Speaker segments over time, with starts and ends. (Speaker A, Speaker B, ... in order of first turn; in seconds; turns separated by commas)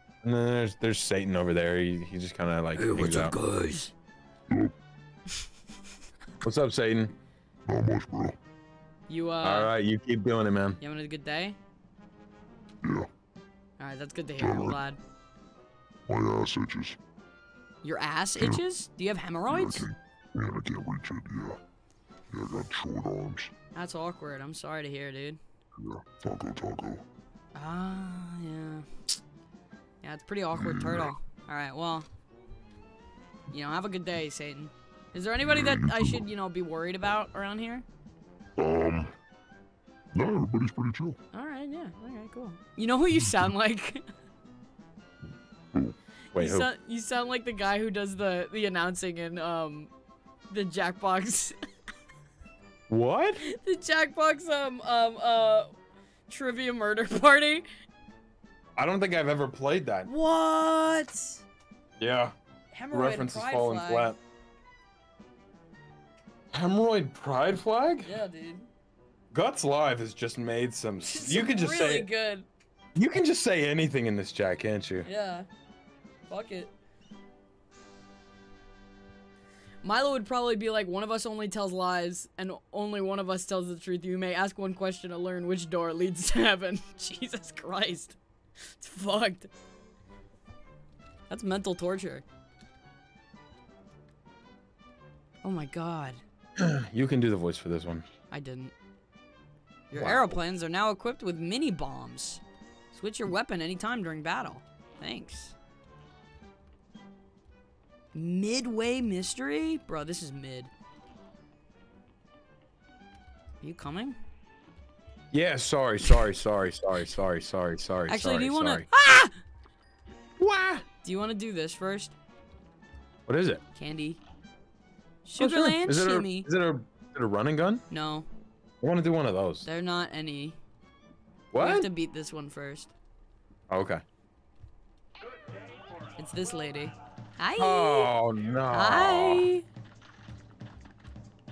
Speaker A: 0.2-3.4, Speaker B: 2.8-3.9, Speaker A: 6.4-7.1, Speaker C: 7.7-8.4, Speaker B: 9.1-9.7, Speaker A: 9.4-10.8, Speaker B: 10.8-11.6, Speaker C: 12.8-13.1, Speaker B: 13.8-15.0, Speaker C: 14.4-14.8, Speaker C: 16.1-17.0, Speaker B: 17.8-19.9, Speaker C: 19.5-21.6, Speaker C: 22.3-23.5, Speaker B: 23.7-25.4, Speaker C: 25.8-27.0, Speaker B: 27.5-28.9, Speaker B: 30.0-32.1, Speaker C: 30.6-31.1, Speaker B: 33.5-37.8, Speaker C: 35.5-36.2, Speaker C: 38.6-39.1, Speaker C: 40.1-41.2, Speaker B: 41.3-44.0, Speaker B: 46.3-49.9, Speaker A: 46.3-46.7, Speaker B: 50.5-51.5, Speaker A: 52.9-53.4, Speaker B: 53.4-55.7, Speaker B: 56.3-57.6, Speaker A: 58.8-60.1, Speaker B: 60.0-61.4, Speaker A: 62.0-62.3, Speaker B: 62.7-64.1, Speaker A: 62.9-64.2, Speaker A: 66.5-68.1, Speaker B: 68.0-68.7, Speaker A: 69.3-72.1, Speaker B: 71.0-72.5, Speaker A: 73.0-75.1, Speaker B: 75.0-75.5, Speaker B: 76.3-76.7, Speaker B: 79.8-88.2, Speaker B: 88.8-89.5, Speaker B: 91.3-92.2, Speaker B: 95.4-96.2, Speaker A: 96.5-98.1, Speaker B: 98.3-98.7, Speaker B: 99.9-105.5, Speaker A: 99.9-100.4, Speaker B: 108.1-110.7, Speaker B: 113.6-114.2, Speaker A: 115.3-118.9, Speaker B: 118.1-119.3, Speaker A: 120.4-120.8, Speaker B: 121.0-122.1, Speaker A: 123.3-123.6, Speaker B: 123.7-124.2, Speaker B: 125.2-126.5, Speaker A: 125.4-127.8, Speaker B: 127.9-128.3, Speaker A: 128.8-129.7, Speaker B: 129.6-130.6, Speaker A: 131.5-131.9, Speaker B: 131.6-132.9, Speaker A: 133.7-134.0, Speaker B: 136.2-138.1, Speaker A: 137.6-139.5, Speaker B: 138.7-139.6